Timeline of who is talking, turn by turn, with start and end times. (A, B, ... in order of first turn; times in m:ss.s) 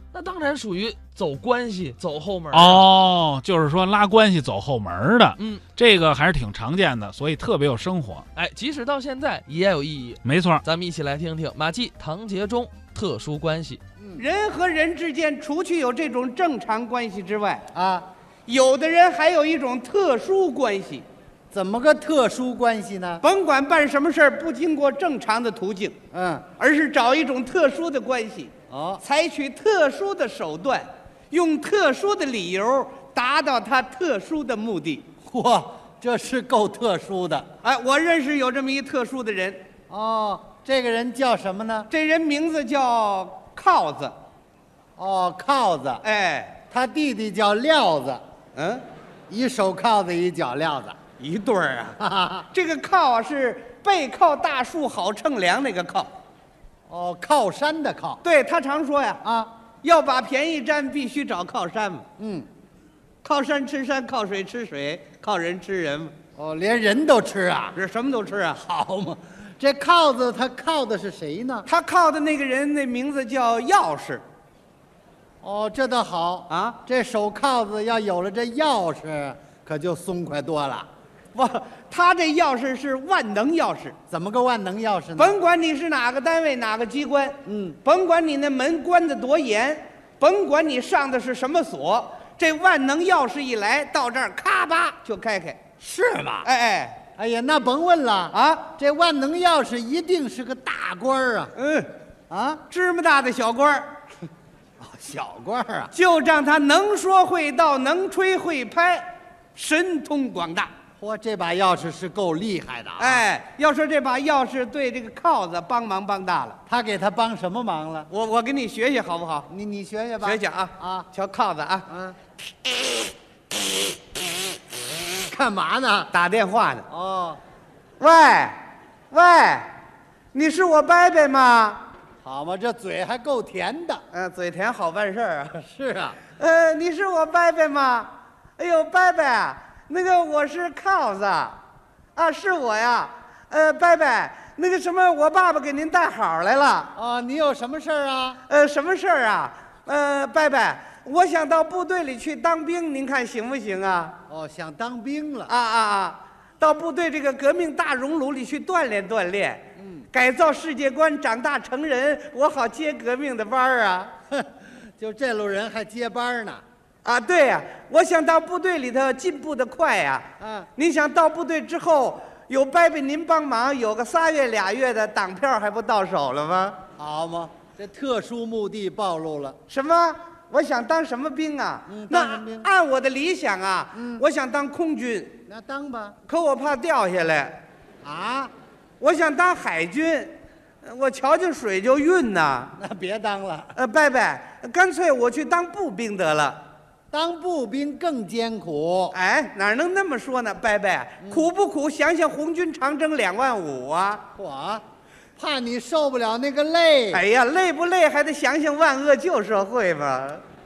0:00.1-0:02.9 A
0:02.5-0:08.2 B
0:05.4-0:05.6 A
0:08.3-0:13.8 A
0:10.2-0:10.6 B
0:14.0-0:14.2 C
0:14.2-0:17.6 D
0:17.7-0:18.1 C
0:18.5-0:21.0 D
0:21.5-0:23.2 C
0:23.2-0:26.0 D
0:26.1-0:26.5 C
0:26.6-0:35.0 D
0:28.7-0:29.0 C
0:35.2-0:37.5 C
0:37.6-0:39.6 D
0:39.9-0:41.9 C
0:41.9-0:44.1 D
0:45.0-0:46.0 C
0:46.0-0:46.6 D
0:46.7-0:48.2 C
0:48.6-0:48.8 D
0:49.3-0:51.0 C
0:51.2-0:52.0 D
0:52.0-0:52.5 C
0:52.5-0:56.1 D
0:56.9-0:58.2 C
0:58.2-0:59.2 D
0:59.2-0:59.5 C
0:59.8-1:02.1 D
1:02.2-1:02.5 C
1:03.2-1:06.1 D
1:06.4-1:07.8 C
1:07.8-1:08.6 D
1:08.6-1:11.7 C
1:11.7-1:14.2 D
1:15.4-1:20.9 C
1:16.5-1:16.8 D
1:21.3-1:24.0 D
1:24.1-1:25.4 C
1:25.2-1:35.6 D
1:27.4-1:27.8 C
1:35.8-1:36.5 C
1:36.4-1:37.0 D
1:37.2-1:41.5 C
1:38.3-1:38.7 D
1:41.6-1:41.9 D
1:42.3-1:42.6 C
1:42.7-1:44.0 D
1:44.8-1:45.9 C
1:45.9-1:50.7 D
1:51.0-1:53.2 C
1:53.0-1:56.6 D
1:56.7-1:58.1 C
1:58.1-1:59.5 D
1:59.5-2:01.1 C
2:00.2-2:01.9 D
2:01.9-2:02.2 C
2:05.2-2:06.1 C
2:06.1-2:06.9 D
2:06.9-2:07.4 C
2:08.0-2:09.7 D
2:10.3-2:11.8 D
2:12.2-2:14.0 C
2:14.1-2:15.6 D
2:15.6-2:16.2 C
2:16.4-2:21.6 D
2:22.2-2:26.9 D
2:26.9-2:28.4 C
2:28.5-2:34.2 D
2:34.3-2:35.5 C
2:35.5-2:44.1 D
2:39.8-2:40.0 C
2:44.3-2:46.6 C
2:47.0-2:56.8 D
2:50.4-2:50.7 C
2:57.0-2:59.6 C
2:59.7-3:05.4 D
3:01.9-3:02.7 C
3:03.9-3:04.2 C
3:05.5-3:06.2 C
3:06.2-3:07.6 D
3:08.0-3:08.5 C
3:09.0-3:12.8 D
3:12.8-3:13.8 C
3:13.7-3:16.6 D
3:17.1-3:19.2 C
3:19.1-3:24.2 D
3:24.3-3:24.8 C
3:25.4-3:27.2 C
3:27.1-3:30.4 D